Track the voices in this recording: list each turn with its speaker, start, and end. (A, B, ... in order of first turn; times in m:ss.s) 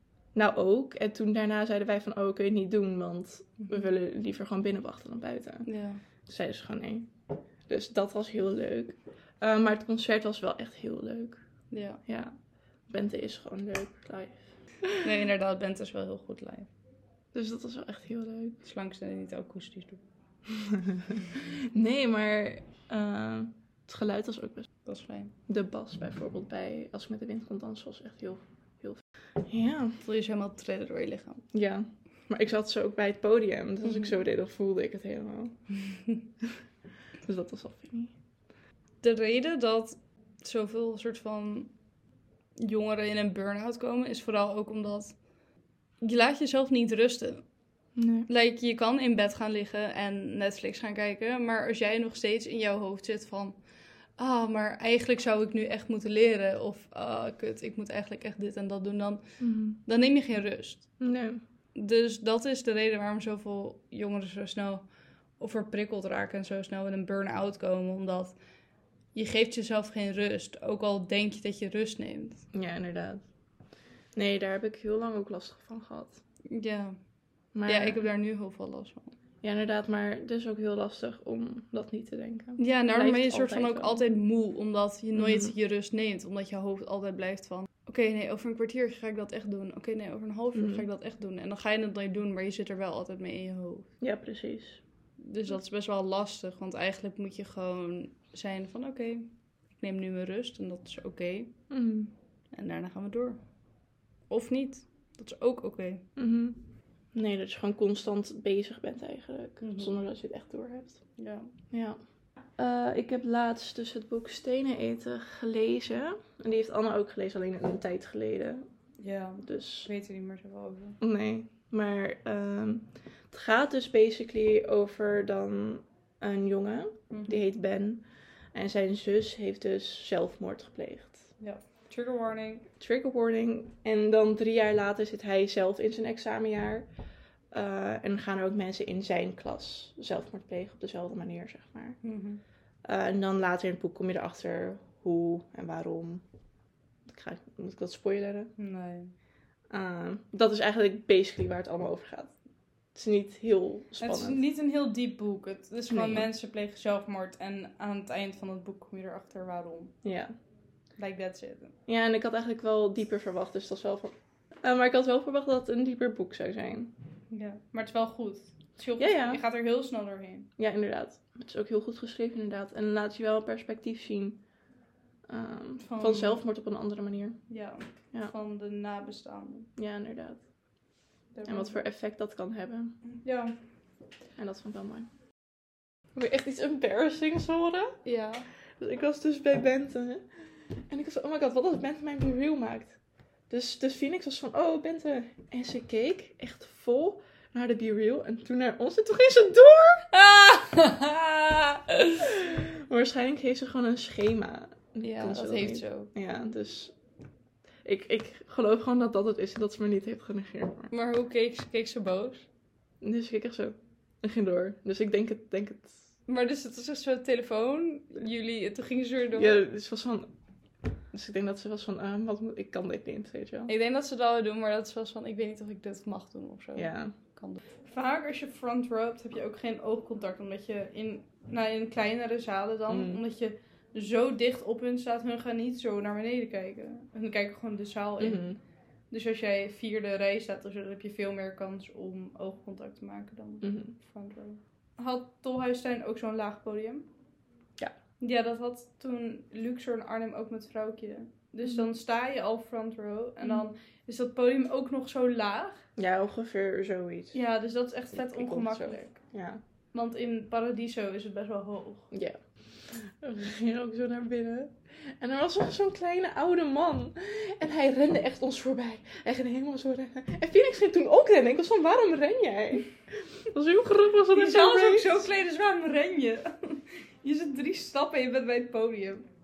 0:00.4-0:05.7 A
0:05.7-0:06.0 B
0:06.3-0:07.1 A
0:07.7-0:11.4 A
0:11.7-0:12.0 B
0:12.0-0:12.4 A
0:12.9-0:14.4 A
0:15.0-0:16.7 B
0:17.3-0:18.6 A
0:18.6-0:20.0 B
0:20.7-0:21.0 A
0:21.7-0:24.7 A
0:24.9-0:25.3 B
0:25.5-0:30.0 A
0:30.0-0:31.4 B
0:31.5-0:35.6 A
0:33.9-0:34.1 B
0:37.2-0:38.1 A
0:39.0-0:41.7 B
0:42.6-0:45.2 B
0:46.0-0:47.4 B
0:48.0-0:48.3 A
0:48.3-0:53.6 B
0:54.2-0:59.2 B
0:59.4-0:59.8 A
0:59.8-1:00.9 B
1:01.0-1:01.4 A
1:01.8-1:04.8 B
1:05.4-1:08.4 B
1:09.1-1:12.4 B
1:12.5-1:13.2 A
1:14.2-1:16.2 A
1:16.5-1:17.0 B
1:17.6-1:18.0 A
1:17.7-1:19.1 B
1:19.4-1:24.0 A
1:22.6-1:33.9 B
1:25.2-1:25.5 A
1:30.5-1:30.9 A
1:34.0-1:34.8 A
1:35.2-1:41.5 B
1:41.7-1:42.1 A
1:42.5-1:43.4 B
1:44.3-1:46.0 B
1:46.2-1:46.6 A
1:47.1-1:51.0 A
1:49.6-1:50.0 B
1:51.2-1:51.5 B
1:51.7-1:52.0 A
1:52.6-1:58.7 A
1:59.0-2:01.0 B
1:59.4-1:59.9 A
2:01.0-2:11.3 A
2:07.1-2:07.4 B
2:11.4-2:12.7 B
2:12.8-2:16.9 A
2:17.5-2:22.0 A
2:22.0-2:22.4 B
2:22.9-2:26.2 A
2:27.1-2:28.5 A
2:28.6-2:29.1 B
2:29.7-2:32.3 A
2:33.0-2:34.5 A
2:34.0-2:40.0 B
2:35.9-2:36.3 A
2:40.0-2:40.3 A
2:41.0-2:41.8 B
2:41.9-2:46.9 A
2:47.3-2:50.5 B
2:49.0-2:49.4 A
2:50.6-2:54.4 A
2:55.3-2:57.4 A
2:55.8-2:56.4 B
2:57.5-2:59.7 B
2:59.8-3:00.4 A
3:01.3-3:01.8 B
3:01.5-3:03.0 A
3:03.1-3:03.5 B
3:04.4-3:05.1 A
3:06.2-3:08.0 A
3:08.0-3:08.5 B
3:08.8-3:10.2 A
3:10.9-3:13.0 A
3:13.5-3:20.1 A
3:20.1-3:21.9 B
3:22.2-3:27.0 A
3:25.0-3:26.1 B
3:27.8-3:30.9 A
3:30.9-3:32.5 B
3:33.0-3:36.0 A
3:36.3-3:39.6 B
3:39.3-3:40.3 A
3:41.1-3:43.7 A
3:43.7-3:58.4 B
3:46.8-3:47.1 A
3:52.9-3:53.2 A
3:58.2-3:58.6 A
3:59.1-4:07.1 B
4:03.6-4:04.0 A
4:08.2-4:15.8 B
4:16.0-4:17.4 A
4:17.3-4:19.2 B
4:18.1-4:19.6 A
4:19.9-4:22.1 B
4:22.1-4:32.9 A
4:33.5-4:35.2 A
4:34.3-4:39.3 B